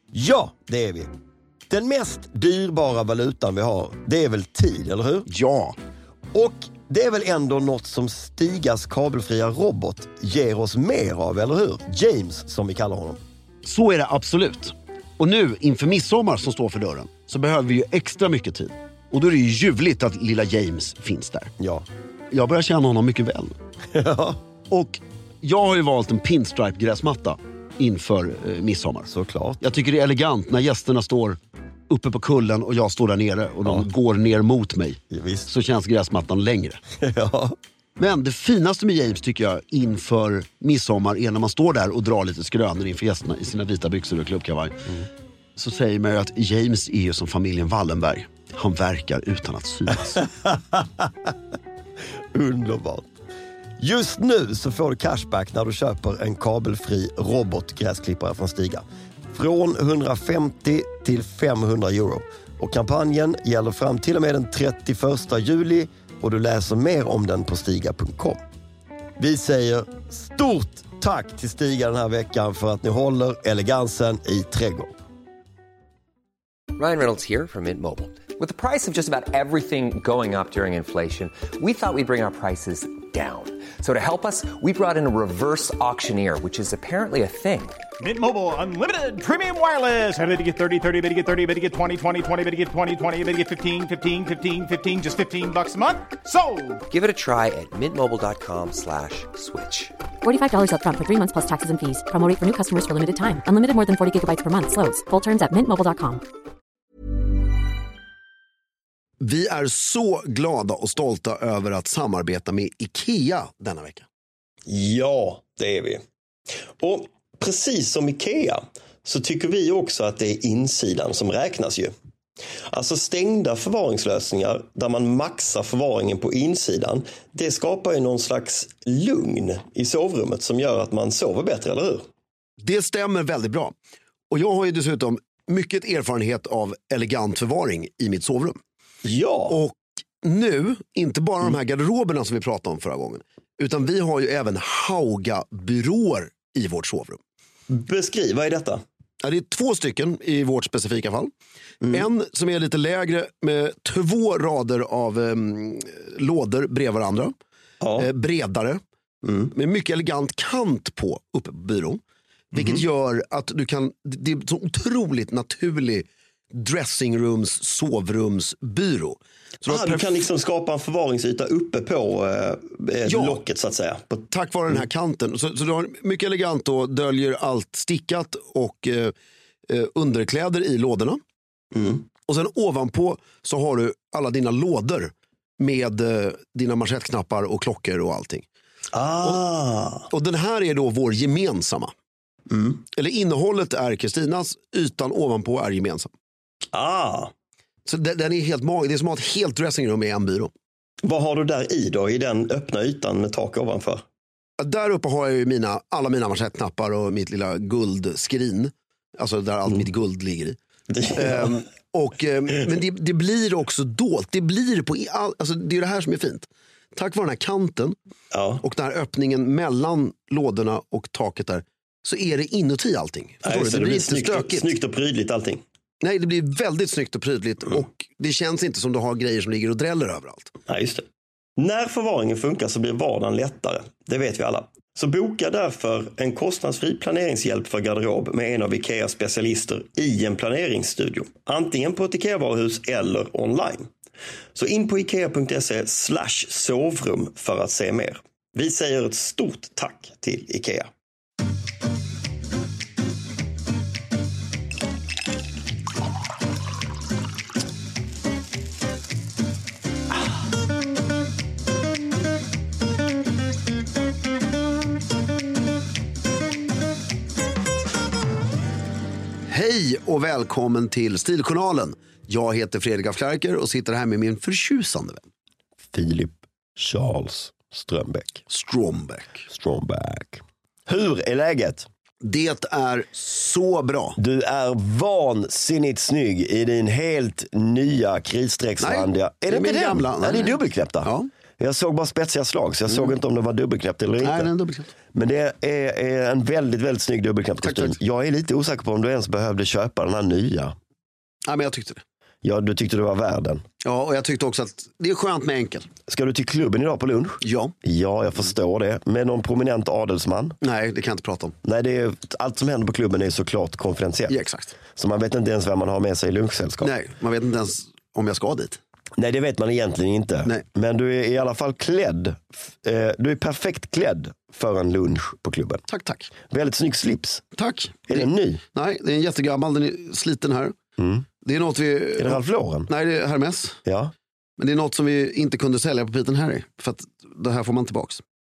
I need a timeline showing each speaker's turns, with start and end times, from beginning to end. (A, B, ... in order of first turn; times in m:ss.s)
0:00.1-0:01.1 A
0:01.7-0:05.3 A
0:05.3-0:05.8 B
0:06.3-0:13.2 A
0:13.6-0:21.5 B
0:21.6-0:21.9 A
0:22.3-0:23.6 B
0:23.9-0:24.4 A
0:24.7-0:29.1 B
0:29.1-0:29.6 A
0:29.6-0:31.4 B
0:31.9-0:36.8 B
0:35.1-0:35.5 A
0:37.0-0:37.6 A
0:38.0-0:44.8 B
0:45.6-0:50.3 B
0:50.2-0:51.3 A
0:52.3-0:53.1 A
0:53.8-1:08.4 A
1:09.2-1:14.9 A
1:16.8-1:27.8 C
1:28.0-1:36.8 D
1:36.9-1:39.9 C
1:40.2-1:46.2 E
1:49.2-1:54.1 B
1:54.7-1:56.0 A
1:56.8-2:01.9 A
2:02.7-2:12.1 A
2:12.6-2:13.8 B
2:14.3-2:18.6 B
2:19.0-2:19.6 A
2:19.5-2:27.2 B
2:27.7-2:28.8 A
2:29.2-2:31.3 B
2:31.9-2:37.3 B
2:37.8-2:38.1 A
2:38.0-2:38.8 B
2:39.2-2:39.5 A
2:39.4-2:42.0 B
2:42.5-2:50.1 B
2:42.5-2:42.8 A
2:49.6-2:54.8 A
2:53.1-2:53.4 B
2:54.3-2:59.1 B
2:59.7-3:01.2 B
3:01.7-3:02.0 A
3:02.3-3:08.5 B
3:08.9-3:10.1 A
3:10.1-3:11.9 B
3:12.5-3:12.8 A
3:12.8-3:16.1 B
3:16.7-3:17.3 A
3:17.9-3:20.5 B
3:21.0-3:24.0 A
3:24.6-3:30.6 B
3:30.9-3:31.6 A
3:31.1-3:38.0 B
3:38.3-3:38.6 A
3:38.6-3:44.7 B
3:43.4-3:45.6 A
3:46.0-3:50.5 B
3:50.7-3:51.1 A
3:51.6-4:03.9 A
4:04.6-4:10.9 A
4:29.5-4:35.3 B
4:35.9-4:38.4 A
4:38.5-4:39.4 B
4:39.5-4:41.9 A
4:42.2-4:44.2 B
4:44.2-4:54.5 A
4:48.8-4:51.3 B
4:54.2-4:54.9 B
4:55.1-5:00.8 A
4:57.6-4:58.0 B
5:01.5-5:02.0 B
5:02.4-5:03.6 A
5:03.8-5:05.9 B
5:06.1-5:10.6 A
5:07.4-5:07.7 B
5:10.6-5:11.6 B
5:11.6-5:14.4 A
5:14.3-5:14.8 B
5:14.9-5:16.9 A
5:16.8-5:18.8 B
5:19.2-5:25.8 A
5:25.9-5:26.3 B
5:26.5-5:27.4 A
5:27.6-5:30.8 B
5:28.1-5:28.6 A
5:31.0-5:31.2 A
5:31.4-5:33.8 B
5:32.2-5:32.9 A
5:33.8-5:34.1 A
5:34.6-5:38.2 B